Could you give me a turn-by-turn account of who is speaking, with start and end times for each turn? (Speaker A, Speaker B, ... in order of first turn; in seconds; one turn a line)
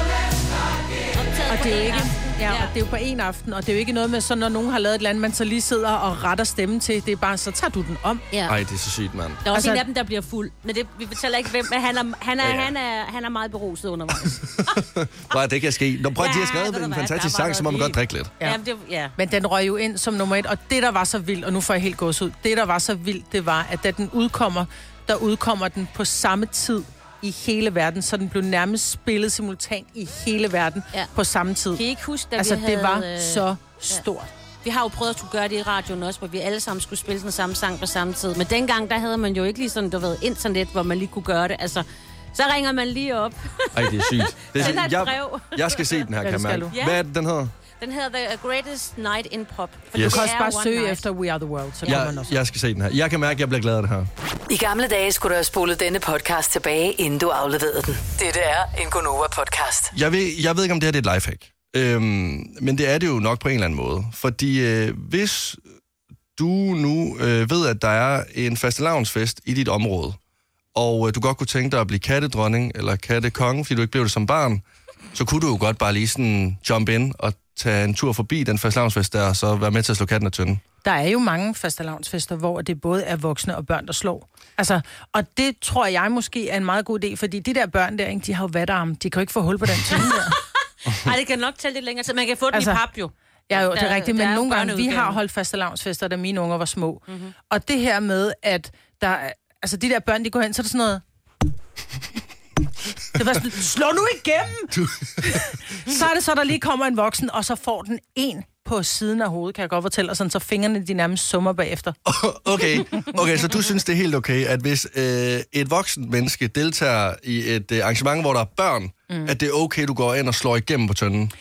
Speaker A: 1.1-2.7
Speaker B: 1.5-8.3
Speaker C: 8.5-9.4
Speaker A: 9.4-14.8
Speaker B: 9.5-9.8
Speaker C: 12.4-12.7
Speaker C: 14.6-18.3
Speaker A: 16.2-19.1
Speaker B: 19.2-31.8
Speaker A: 31.8-34.0
Speaker B: 32.4-34.3
Speaker A: 34.6-46.0
Speaker C: 43.7-47.5
Speaker B: 46.2-46.7
Speaker A: 46.7-47.0
Speaker A: 47.8-51.0
Speaker C: 49.9-50.3
Speaker B: 50.0-52.4
Speaker C: 51.9-54.1
Speaker D: 54.5-59.9
Speaker C: 59.9-65.6
Speaker C: 66.4-70.2
Speaker C: 70.8-74.6
Speaker C: 75.1-80.6
Speaker B: 80.8-90.4
Speaker A: 89.9-95.2
Speaker B: 92.5-92.8
Speaker B: 93.5-101.0
Speaker A: 97.1-97.3
Speaker B: 103.1-112.0
Speaker C: 104.7-105.5
Speaker C: 112.1-121.3
Speaker B: 119.1-119.3